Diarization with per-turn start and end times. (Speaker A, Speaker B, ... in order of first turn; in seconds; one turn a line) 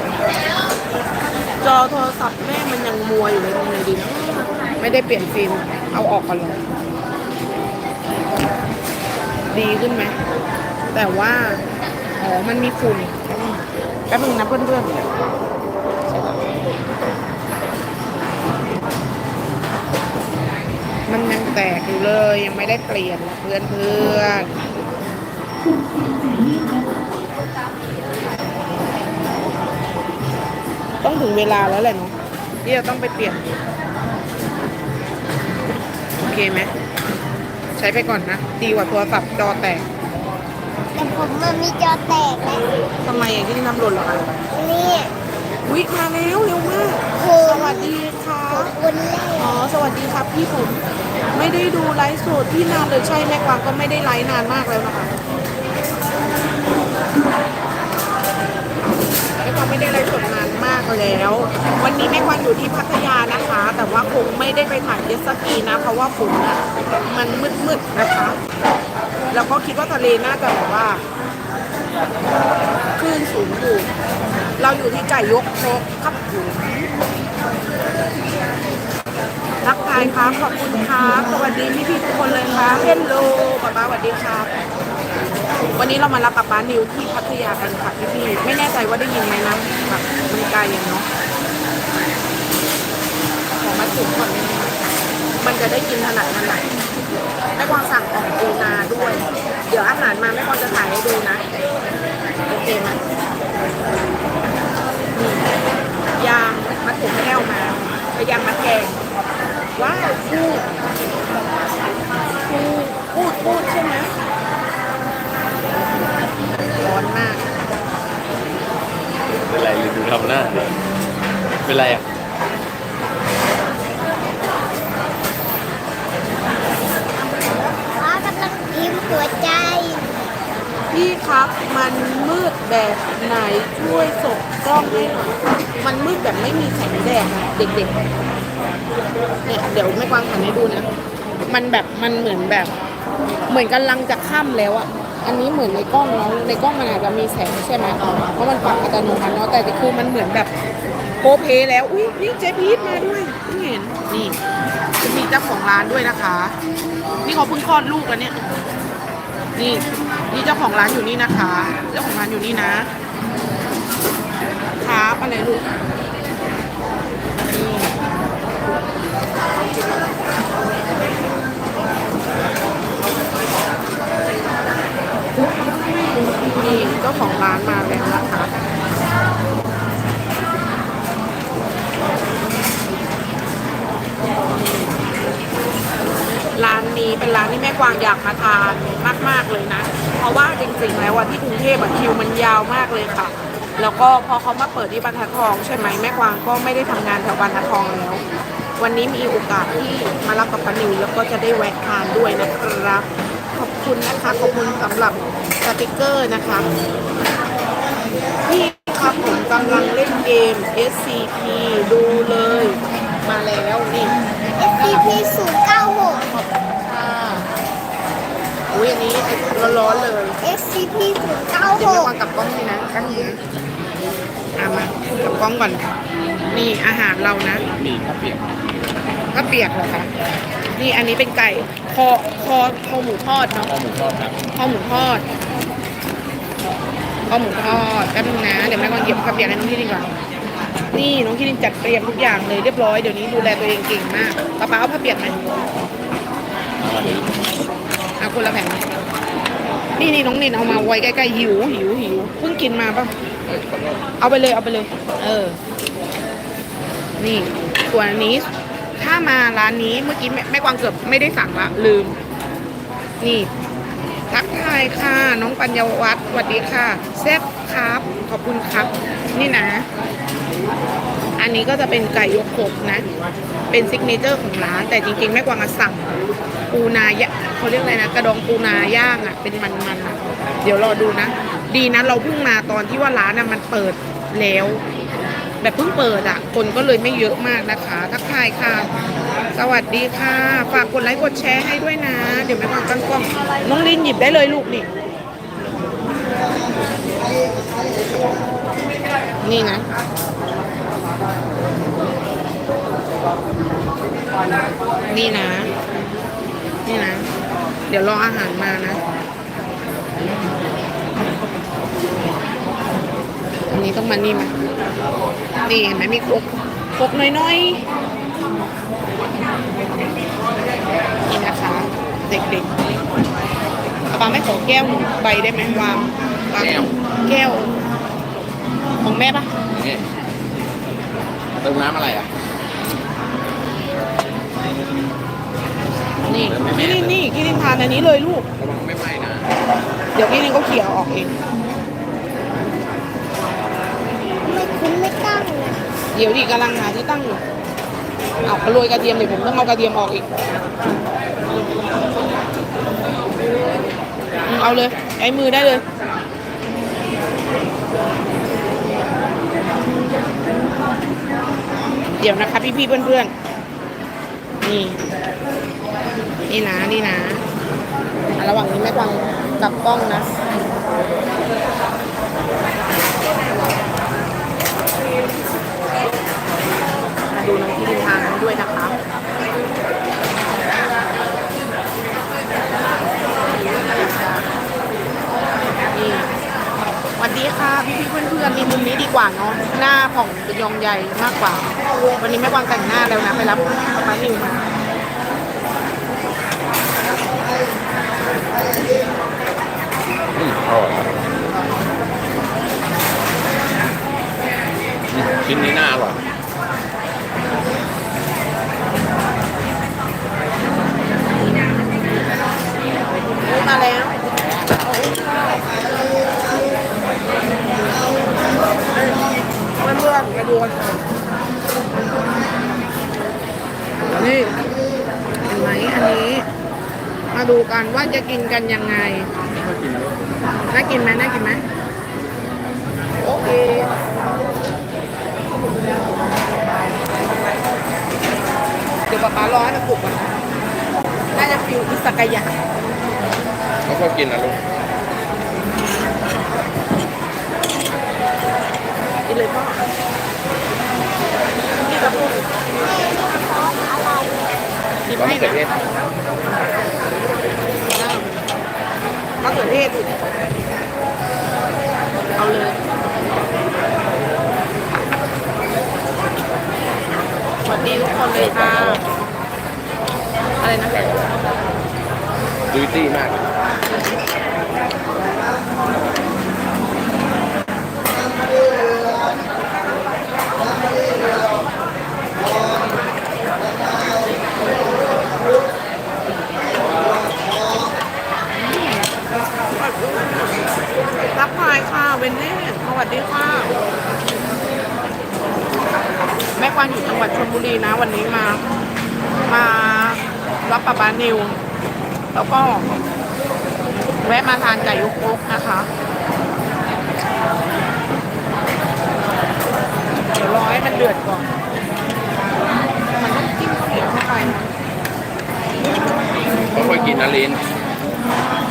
Speaker A: 1.6-6.6
Speaker A: 9.5-10.2
Speaker A: 10.9-11.6
Speaker A: 12.2-15.0
Speaker A: 21.1-24.5
Speaker A: 31.0-33.4
Speaker A: 36.2-36.7
Speaker A: 37.8-39.8
Speaker B: 41.0-42.6
Speaker A: 43.0-44.4
Speaker B: 44.5-45.1
Speaker A: 45.6-48.7
Speaker B: 47.1-47.9
Speaker B: 48.5-49.5
Speaker A: 49.4-50.8
Speaker A: 51.3-55.1
Speaker A: 59.4-68.4
Speaker A: 69.3-71.0
Speaker A: 73.0-73.9
Speaker A: 74.6-76.9
Speaker A: 79.6-84.5
Speaker A: 85.8-91.1
Speaker A: 93.6-94.8
Speaker A: 95.4-96.6
Speaker A: 97.5-101.4
Speaker A: 102.5-103.0
Speaker A: 105.1-105.5
Speaker A: 106.2-109.0
Speaker A: 109.8-110.6
Speaker A: 112.4-114.2
Speaker A: 116.8-117.4
Speaker C: 119.5-120.7
Speaker C: 121.6-122.0
Speaker B: 127.6-130.0
Speaker A: 130.9-137.9
Speaker A: 139.4-140.9
Speaker A: 141.5-142.7
Speaker A: 143.5-150.5
Speaker A: 151.2-154.4
Speaker A: 155.0-156.5
Speaker A: 157.2-158.4
Speaker A: 159.6-162.9
Speaker A: 164.8-165.6
Speaker A: 167.5-167.9
Speaker A: 176.5-178.5
Speaker A: 186.5-198.2
Speaker A: 198.8-206.7
Speaker A: 208.4-215.2
Speaker B: 214.8-216.2
Speaker A: 216.3-217.5
Speaker A: 218.7-220.4
Speaker B: 220.4-222.1
Speaker A: 221.7-223.4
Speaker A: 224.6-225.9
Speaker A: 226.5-227.6
Speaker C: 227.6-228.4
Speaker A: 229.3-230.1
Speaker A: 230.7-233.7
Speaker C: 233.6-234.4
Speaker A: 234.5-235.2
Speaker A: 237.3-240.1
Speaker A: 240.9-245.4
Speaker C: 246.8-247.3
Speaker A: 248.2-248.8
Speaker A: 250.0-253.1
Speaker C: 253.5-254.1
Speaker A: 254.2-255.6
Speaker A: 257.2-262.2
Speaker A: 263.2-263.5
Speaker A: 264.3-269.9
Speaker A: 271.4-273.0
Speaker A: 273.7-276.1
Speaker A: 276.7-284.8
Speaker A: 285.6-288.9
Speaker A: 289.5-294.9
Speaker A: 299.4-299.9
Speaker A: 305.1-305.7
Speaker A: 306.8-307.3
Speaker A: 307.9-309.0
Speaker A: 313.7-314.5
Speaker A: 315.6-317.8
Speaker A: 321.2-322.7
Speaker A: 324.1-327.7
Speaker C: 326.6-326.9
Speaker A: 329.0-329.5
Speaker C: 329.7-330.0
Speaker C: 331.6-332.3
Speaker A: 336.2-338.4
Speaker C: 336.3-337.2
Speaker C: 338.6-339.5
Speaker A: 340.1-341.3
Speaker B: 344.5-345.8
Speaker A: 346.1-347.4
Speaker A: 348.4-350.2
Speaker A: 354.4-355.8
Speaker A: 362.2-363.3
Speaker A: 364.6-365.0
Speaker A: 366.5-367.4
Speaker A: 368.4-370.3
Speaker A: 377.3-378.9
Speaker A: 383.5-384.4
Speaker A: 385.9-386.3
Speaker A: 387.2-394.7
Speaker C: 400.3-401.1
Speaker C: 405.1-406.2
Speaker A: 413.4-414.1
Speaker A: 414.8-415.5
Speaker A: 418.9-421.0
Speaker A: 424.1-424.6
Speaker A: 425.4-426.4
Speaker A: 427.3-429.3
Speaker C: 429.5-430.3
Speaker A: 430.7-431.6
Speaker A: 433.2-433.9
Speaker A: 439.1-440.3
Speaker A: 441.3-442.5
Speaker C: 443.9-444.6
Speaker A: 449.2-449.8
Speaker A: 451.8-452.5
Speaker B: 452.9-454.3
Speaker A: 455.1-455.6
Speaker C: 455.1-455.7
Speaker A: 457.9-458.4
Speaker A: 459.4-460.1
Speaker A: 462.4-462.8
Speaker A: 467.6-469.0
Speaker C: 468.2-469.1
Speaker A: 470.6-470.9
Speaker C: 470.9-471.4
Speaker C: 472.7-473.4
Speaker A: 488.5-490.6
Speaker A: 491.3-493.7
Speaker A: 496.6-498.6
Speaker A: 499.5-501.6
Speaker A: 502.3-502.9
Speaker A: 504.2-505.9
Speaker A: 510.3-511.5
Speaker A: 513.2-514.7
Speaker C: 516.7-517.6